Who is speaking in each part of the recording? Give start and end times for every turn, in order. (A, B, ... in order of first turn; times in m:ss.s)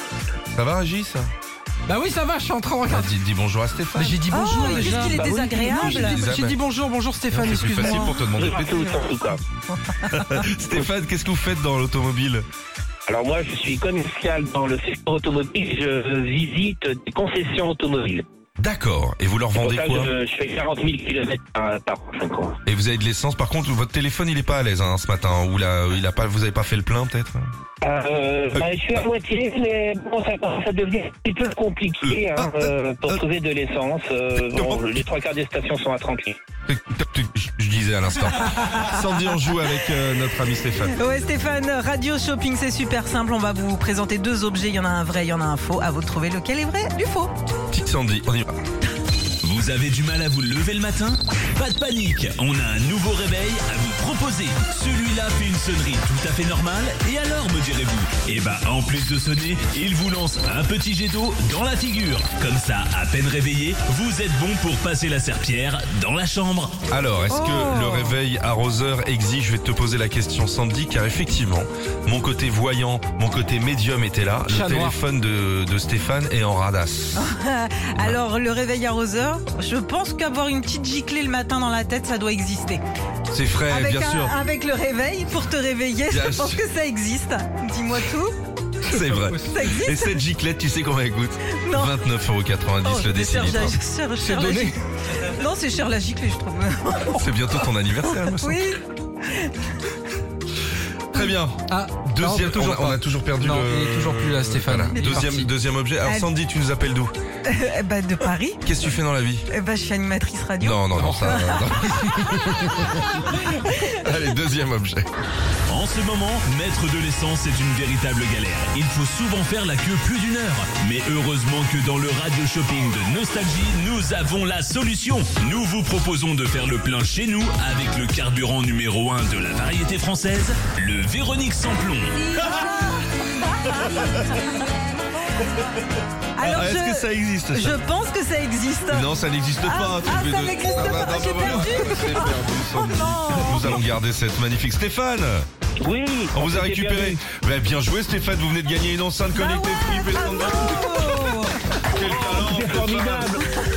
0:00.5-0:01.3 A
0:01.9-0:03.2 B
0:03.0-0:05.3 A
0:04.0-0:08.3 B
0:04.3-0:06.3 C
0:04.9-0:06.0 D
0:06.0-0:06.6 A
0:07.4-0:08.8 A
0:07.8-0:09.4 D
0:10.1-0:12.4 A
0:13.1-0:18.2 D
0:18.6-0:20.1 A
0:19.6-0:22.6 D
0:22.6-0:27.5 A
0:27.8-0:36.4 D
0:32.0-0:33.2 A
0:34.4-0:34.9 A
0:36.7-0:41.0 A
0:41.0-0:47.3 C
0:47.7-0:48.5 A
0:49.4-1:06.8 E
1:06.9-1:17.2 A
1:07.3-1:08.2 C
1:14.5-1:15.0 B
1:17.2-1:22.8 C
1:23.3-1:24.4 A
1:23.7-1:28.3 C
1:26.1-1:26.6 A
1:28.8-1:33.8 A
1:28.9-1:29.6 B
1:29.4-1:30.2 C
1:31.5-1:32.0 C
1:32.8-1:37.3 C
1:34.2-1:34.8 B
1:37.2-1:38.6 A
1:38.1-1:39.6 C
1:41.2-1:47.1 A
1:41.7-1:45.5 B
1:44.9-1:45.3 C
1:46.0-1:46.3 C
1:47.5-1:48.6 C
1:48.6-1:49.5 A
1:49.5-1:52.4 C
1:50.6-1:52.9 A
1:51.0-1:51.8 B
1:53.2-1:53.9 C
1:53.9-1:55.1 A
1:55.7-2:12.6 E
2:12.2-2:14.6 C
2:16.4-2:23.8 C
2:16.4-2:17.8 A
2:18.9-2:25.4 A
2:25.8-2:27.2 D
2:26.3-2:31.1 A
2:29.3-2:31.6 C
2:31.9-2:33.4 A
2:32.0-2:33.4 D